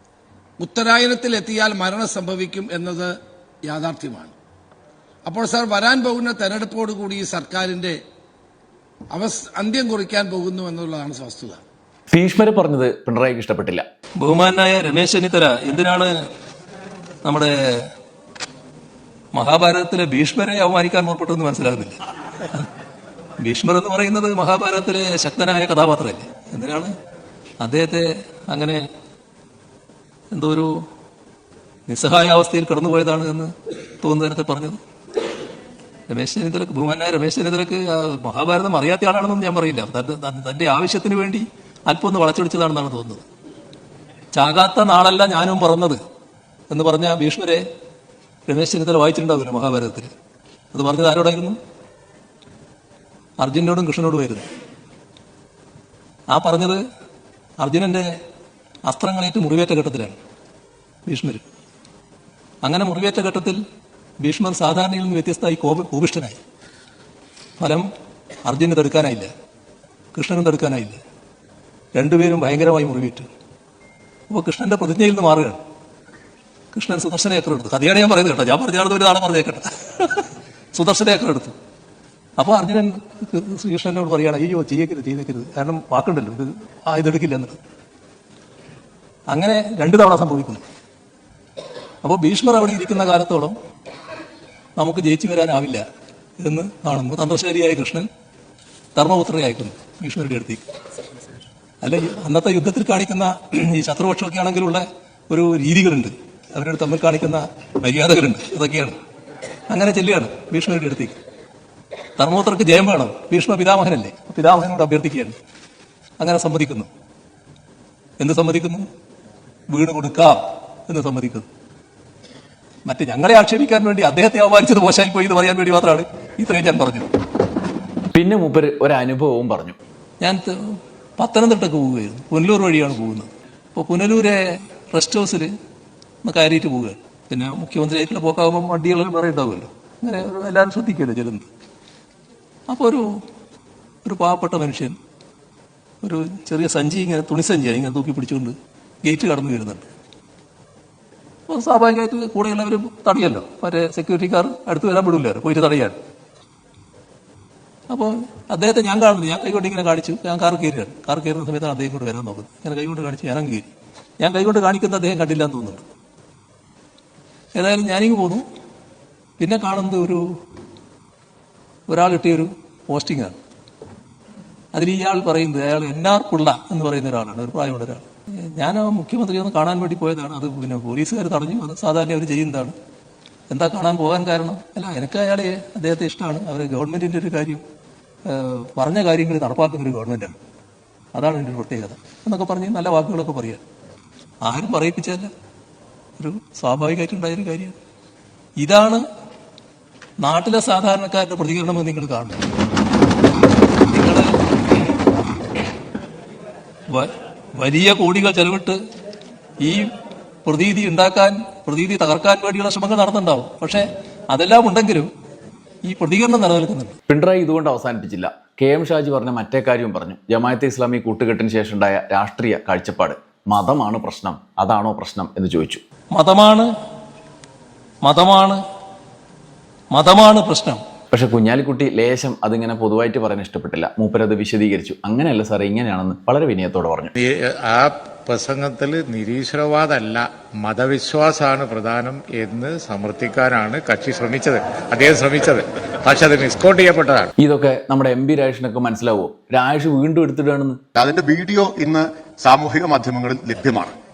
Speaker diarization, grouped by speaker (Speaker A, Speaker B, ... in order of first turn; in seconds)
Speaker A: 0.6-3.1, 3.7-4.3, 5.3-8.0, 9.1-11.6
Speaker B: 12.1-13.8, 128.1-129.8, 217.1-225.8, 231.1-237.1, 247.4-250.8
Speaker C: 14.2-16.1, 17.2-17.8, 19.3-22.0, 23.4-26.9, 27.6-28.8, 30.3-30.7, 31.9-34.8, 36.1-43.2, 44.3-46.0, 46.7-47.6, 48.5-50.1, 50.7-51.6, 53.4-54.5, 56.3-56.8, 57.6-58.0, 58.9-60.2, 61.1-61.4, 62.6-63.6, 64.2-66.4, 67.6-67.9, 68.5-69.3, 70.1-71.0, 72.0-73.3, 74.3-75.6, 76.7-81.5, 82.4-87.6, 89.3-90.6, 92.0-93.5, 94.8-95.8, 96.4-98.1, 99.0-100.7, 101.8-109.0, 109.7-111.2, 112.2-115.4, 116.2-116.9, 118.2-118.8, 119.7-121.5, 122.9-127.1, 130.2-130.5, 131.2-134.4, 134.9-135.5, 136.2-141.5, 142.7-143.1, 144.1-145.0, 146.0-149.9, 151.5-156.0, 157.9-163.7, 164.2-165.8, 167.6-168.4, 169.4-170.2, 171.9-173.4, 174.7-182.7, 183.5-187.6, 188.3-190.4, 191.1-193.6, 194.4-195.3, 196.2-197.8, 198.6-199.0, 200.2-202.4, 203.9-204.3, 206.9-208.8, 210.5-215.1, 215.8-217.0, 226.1-226.7, 228.0-228.6, 229.9-230.8
Speaker D: 237.2-247.3
Speaker E: 251.0-253.9